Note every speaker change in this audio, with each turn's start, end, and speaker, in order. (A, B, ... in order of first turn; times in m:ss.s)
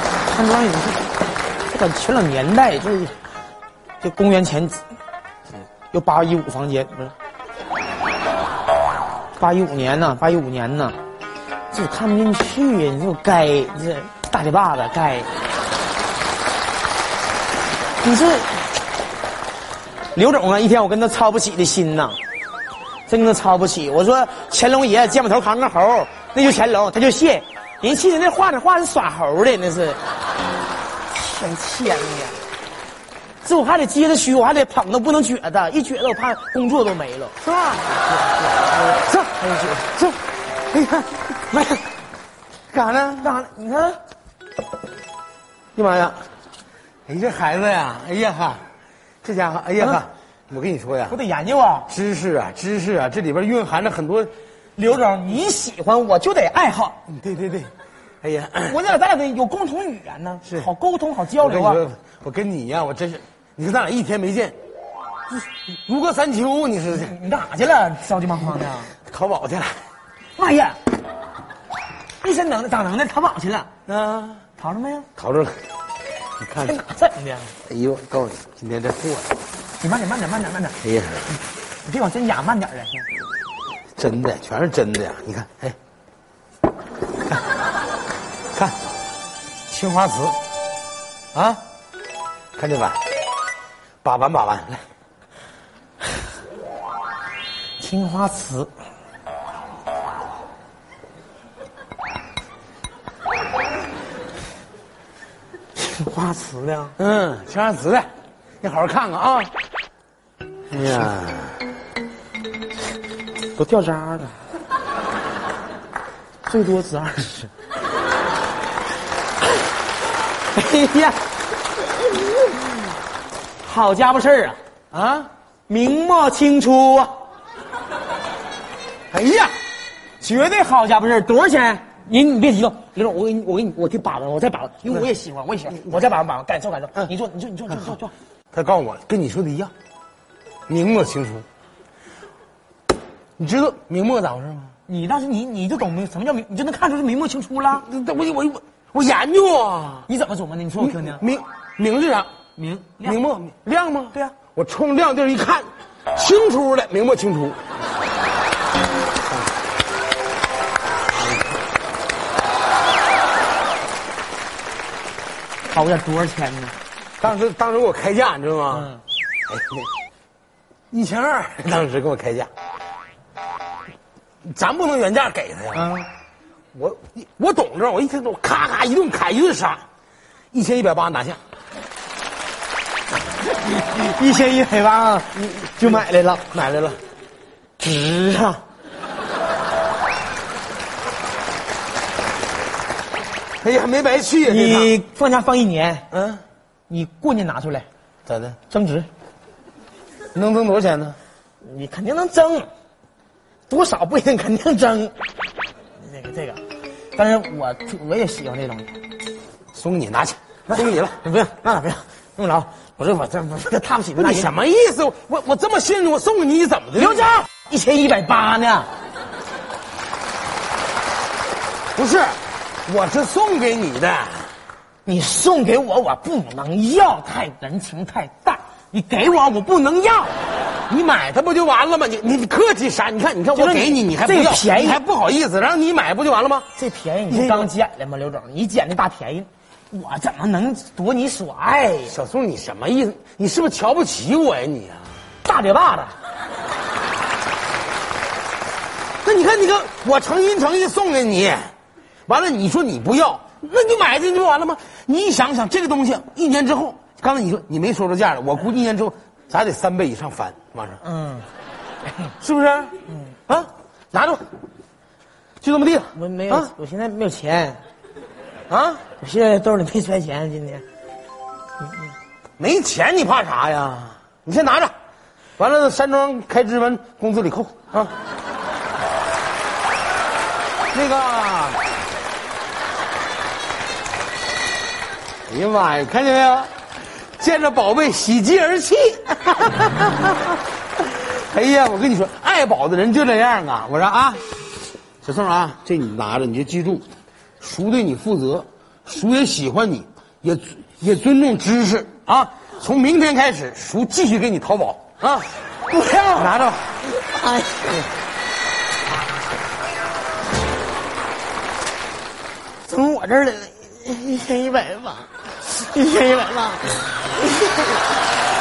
0:00.3-0:01.1 A
0:01.7-0:03.2 A
0:04.0-0:04.8 A
0:05.9-0:07.1 A
0:09.4-0:11.0 A
0:11.7-0:15.3 A
0:18.0-0:18.7 A
0:20.1-0:22.2 A
0:23.1-0:30.0 A
0:31.1-0:32.4 A
0:33.4-0:37.4 A
0:37.4-0:39.3 B
0:38.7-0:40.0 A
0:39.8-0:40.2 B
0:40.7-0:41.8 B
0:42.7-0:43.4 B
0:43.2-0:44.0 A
0:45.8-0:46.2 B
0:47.1-0:48.7 B
0:49.2-0:51.2 B
0:51.1-0:51.9 A
0:51.9-0:54.3 B
0:54.8-0:57.0 A
0:57.1-0:58.8 B
0:58.6-1:01.8 A
1:01.4-1:04.6 B
1:05.7-1:07.2 B
1:06.9-1:08.9 A
1:09.0-1:09.8 B
1:10.4-1:10.8 A
1:12.2-1:13.7 A
1:13.9-1:14.4 B
1:14.6-1:15.1 A
1:15.2-1:15.6 B
1:16.4-1:16.8 B
1:16.6-1:17.5 A
1:17.7-1:19.3 B
1:19.8-1:20.8 A
1:20.8-1:21.3 B
1:21.8-1:23.1 A
1:24.0-1:25.8 B
1:29.7-1:30.4 B
1:31.3-1:31.6 B
1:32.6-1:33.0 B
1:34.0-1:34.8 B
1:37.8-1:38.7 A
1:45.8-1:47.0 A
1:47.0-1:48.1 B
1:48.6-1:49.5 B
1:50.7-1:51.6 B
1:53.6-1:54.4 A
1:56.5-1:57.5 A
2:00.5-2:01.2 A
2:03.6-2:04.6 A
2:04.9-2:05.3 B
2:05.7-2:07.2 A
2:09.1-2:09.6 B
2:10.2-2:18.1 A
2:18.5-2:19.7 B
2:20.7-2:21.5 B
2:23.4-2:24.7 B
2:24.9-2:27.9 A
2:27.7-2:30.1 B
2:30.1-2:31.2 A
2:30.8-2:32.3 B
2:32.6-2:33.2 A
2:33.0-2:37.6 B
2:45.7-2:46.8 A
2:47.2-2:48.9 B
2:48.7-2:49.0 A
2:49.5-2:49.9 B
2:50.9-2:52.5 B
2:54.4-2:55.9 B
2:55.7-2:56.1 A
2:56.7-2:59.8 B
3:00.5-3:01.4 B
3:03.4-3:06.5 A
3:05.4-3:07.0 B
3:07.8-3:08.6 A
3:13.6-3:15.0 B
3:14.4-3:16.1 A
3:16.1-3:16.4 B
3:16.9-3:17.9 A
3:18.3-3:18.6 B
3:18.7-3:19.1 A
3:20.3-3:21.2 B
3:21.6-3:22.7 A
3:23.7-3:25.1 A
3:26.0-3:26.6 A
3:27.2-3:29.0 A
3:29.7-3:31.2 B
3:30.7-3:34.5 A
3:34.2-3:37.3 B
3:37.0-3:38.9 A
3:42.0-3:44.6 B
3:45.0-3:50.4 A
3:50.9-3:56.7 B
3:53.5-3:55.0 A
3:56.8-4:02.2 A
3:57.3-3:57.7 B
4:02.1-4:05.1 B
4:05.4-4:06.1 A
4:09.2-4:11.7 B
4:12.3-4:21.0 B
4:21.0-4:21.5 A
4:22.4-4:22.9 B
4:23.5-4:24.4 B
4:25.6-4:26.7 B
4:26.1-4:27.8 A
4:28.7-4:29.0 B
4:29.2-4:30.8 A
4:32.6-4:34.9 B
4:35.6-4:38.1 B
4:40.9-4:41.8 B
4:45.5-4:54.4 B
4:55.2-4:57.1 B
4:57.6-5:05.5 B
5:05.9-5:06.5 A
5:06.4-5:06.9 B
5:07.2-5:07.9 A
5:12.8-5:17.0 A